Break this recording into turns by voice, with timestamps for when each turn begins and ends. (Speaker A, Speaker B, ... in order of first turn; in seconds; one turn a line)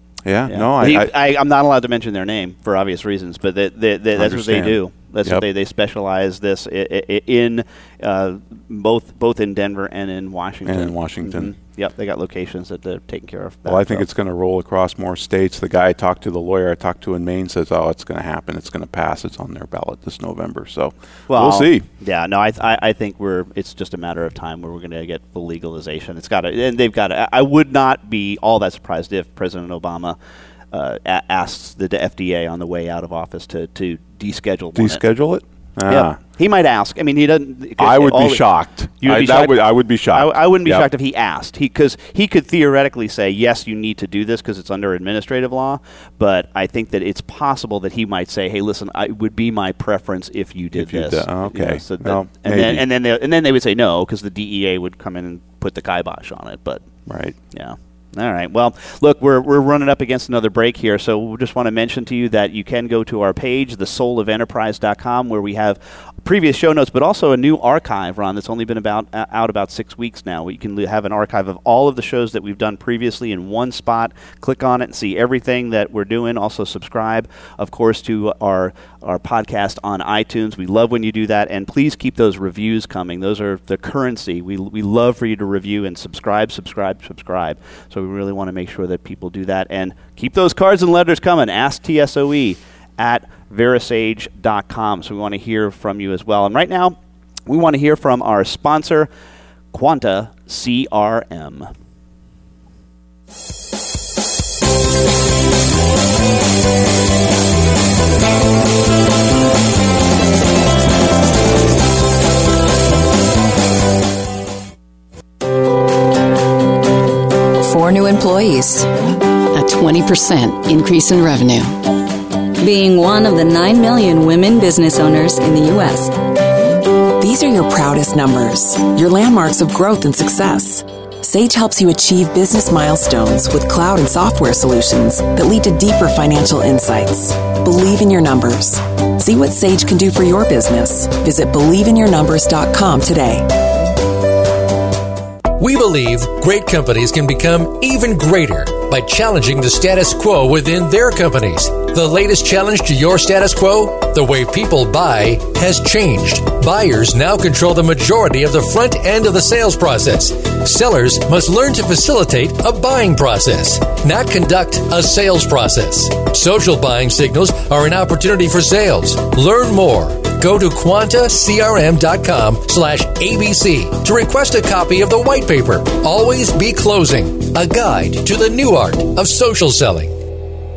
Speaker A: 0.2-1.1
Speaker B: 0.5-14.1
Speaker A: 4.2-5.4
Speaker A: 10.7-11.5
Speaker A: 13.7-21.9
Speaker B: 21.3-30.2
Speaker B: 30.7-35.0
Speaker A: 34.8-36.2
Speaker B: 35.9-38.4
Speaker A: 37.8-40.9
Speaker B: 39.0-56.8
Speaker A: 50.8-52.8
Speaker A: 57.1-57.4
Speaker B: 57.5-99.1
Speaker B: 99.7-101.7
Speaker C: 117.7-118.9
Speaker C: 119.5-121.8
Speaker D: 122.6-126.1
Speaker E: 127.2-143.5
Speaker F: 145.6-180.2